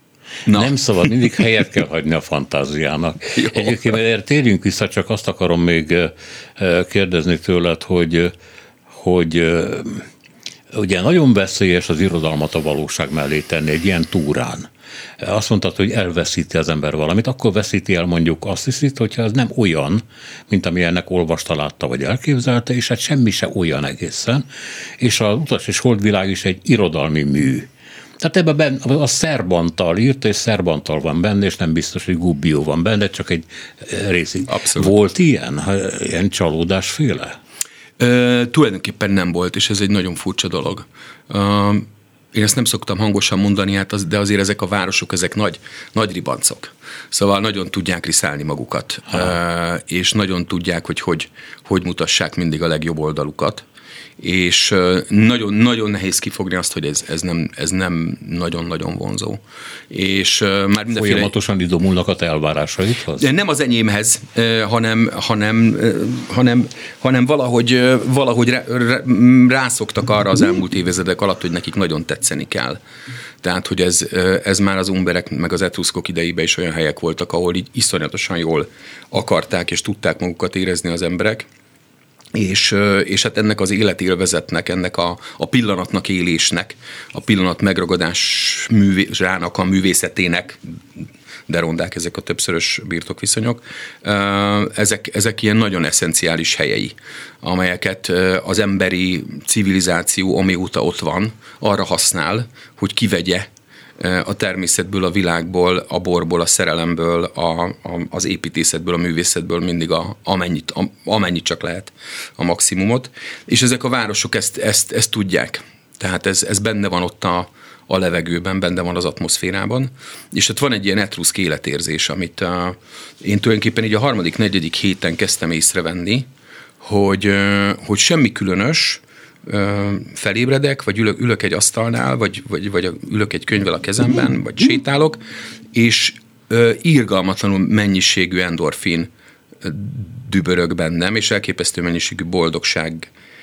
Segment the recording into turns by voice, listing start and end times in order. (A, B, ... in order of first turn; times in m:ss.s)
0:00.5-0:08.3 A
0:00.5-0:01.1 B
0:03.4-0:04.0 B
0:08.9-0:10.1 A
0:10.7-0:24.4 A
0:25.0-0:27.7 A
0:28.2-0:37.4 A
0:34.5-0:34.9 B
0:38.0-0:53.6 B
0:54.2-1:01.3 B
1:00.9-1:03.3 A
1:03.2-1:12.8 B
1:13.4-1:21.5 B
1:22.3-2:06.3 B
2:06.8-2:15.2 B
2:15.7-2:19.1 B
2:19.6-2:23.1 B